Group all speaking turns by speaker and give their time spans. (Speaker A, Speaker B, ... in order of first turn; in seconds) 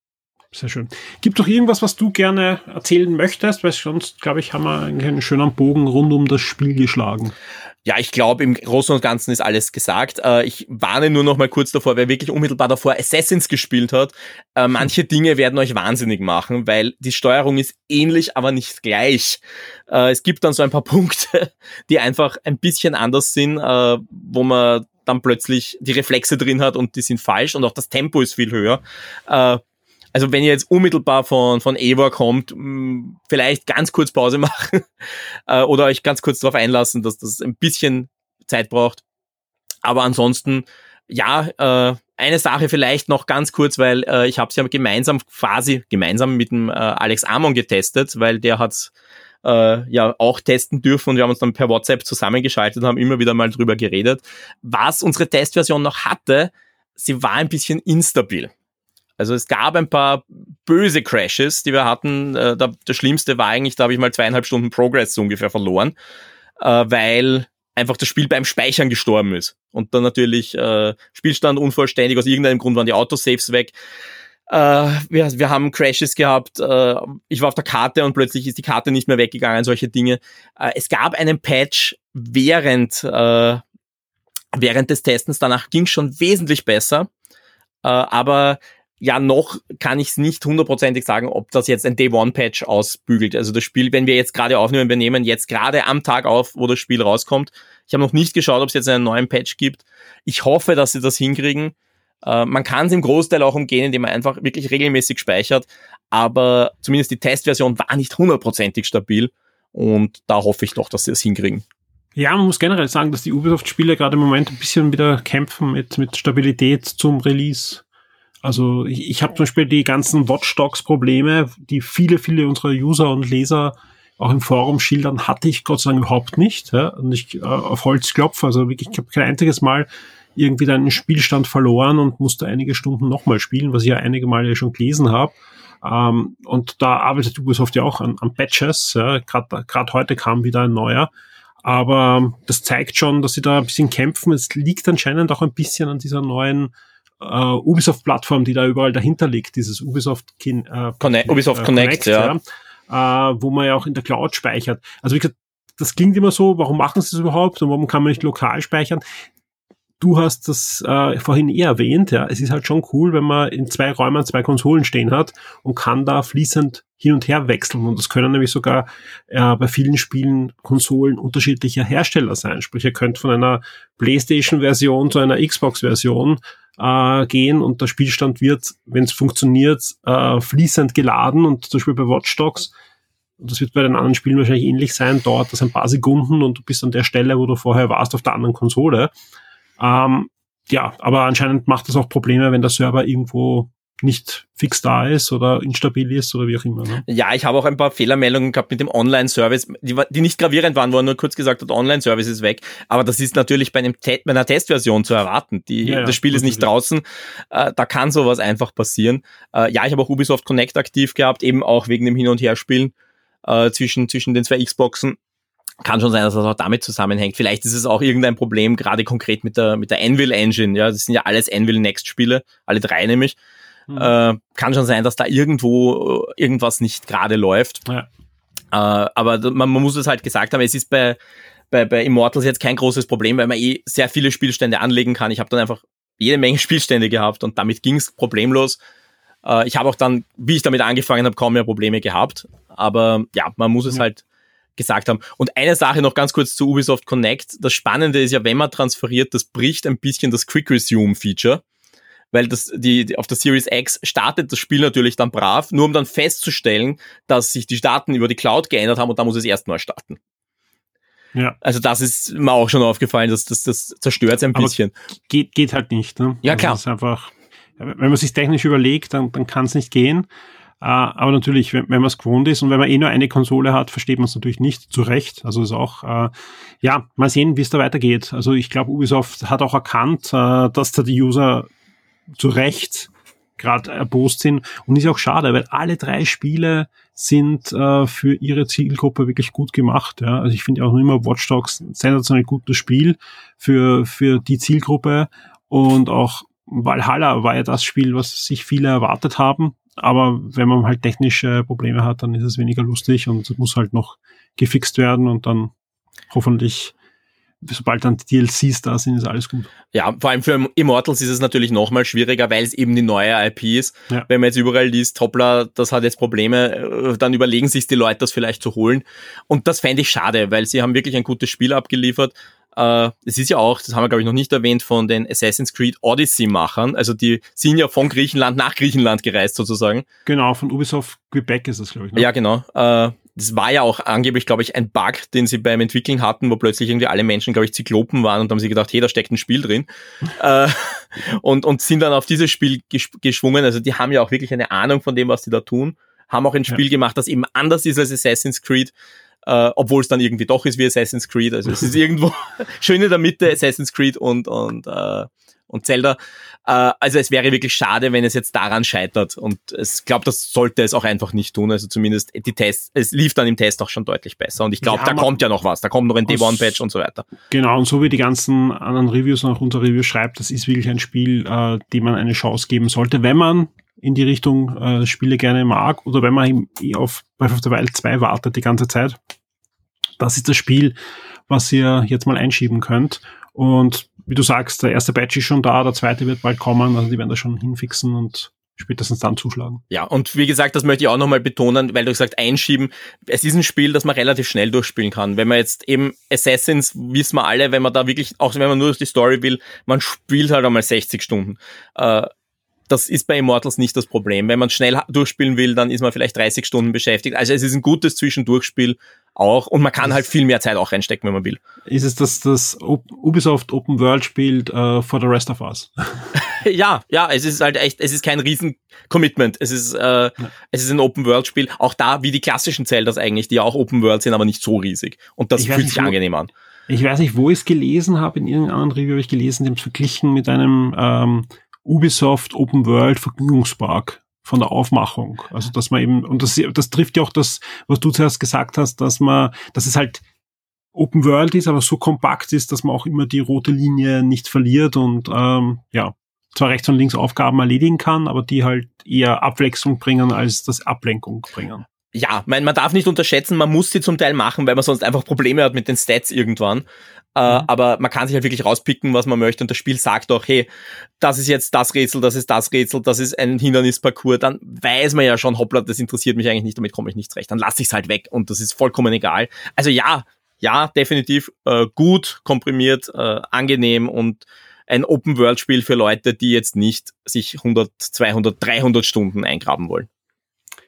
Speaker A: 0.5-7.3, 112.2-117.8, 118.4-141.1, 141.6-159.0, 160.0-182.7, 183.4-189.1, 189.8-197.0, 205.8-206.7, 265.3-270.3, 270.8-281.7, 282.4-305.7, 306.3-306.9, 307.6-309.7, 330.3-332.3, 364.8-365.4, 366.3-366.8, 367.5-379.2, 380.2-381.0, 381.5-389.8, 411.9-416.3, 425.6-426.2, 426.9-440.2, 440.9-451.9
Speaker B: 7.9-29.6, 30.1-34.9, 35.5-39.0, 39.8-48.9, 49.4-58.5, 59.2-65.9, 66.6-73.7, 74.5-83.6, 84.5-87.1, 87.8-111.6, 151.0-152.3, 197.1-212.9, 213.5-215.2, 215.8-223.4, 223.9-227.8, 228.7-231.2, 231.7-238.8, 239.4-244.2, 244.8-251.6, 252.3-260.2, 261.6-264.9, 266.4-266.8, 309.9-330.1, 332.2-348.9, 349.5-367.3, 389.9-402.3, 402.9-411.6, 416.4-426.5, 452.1-460.7, 461.2-480.1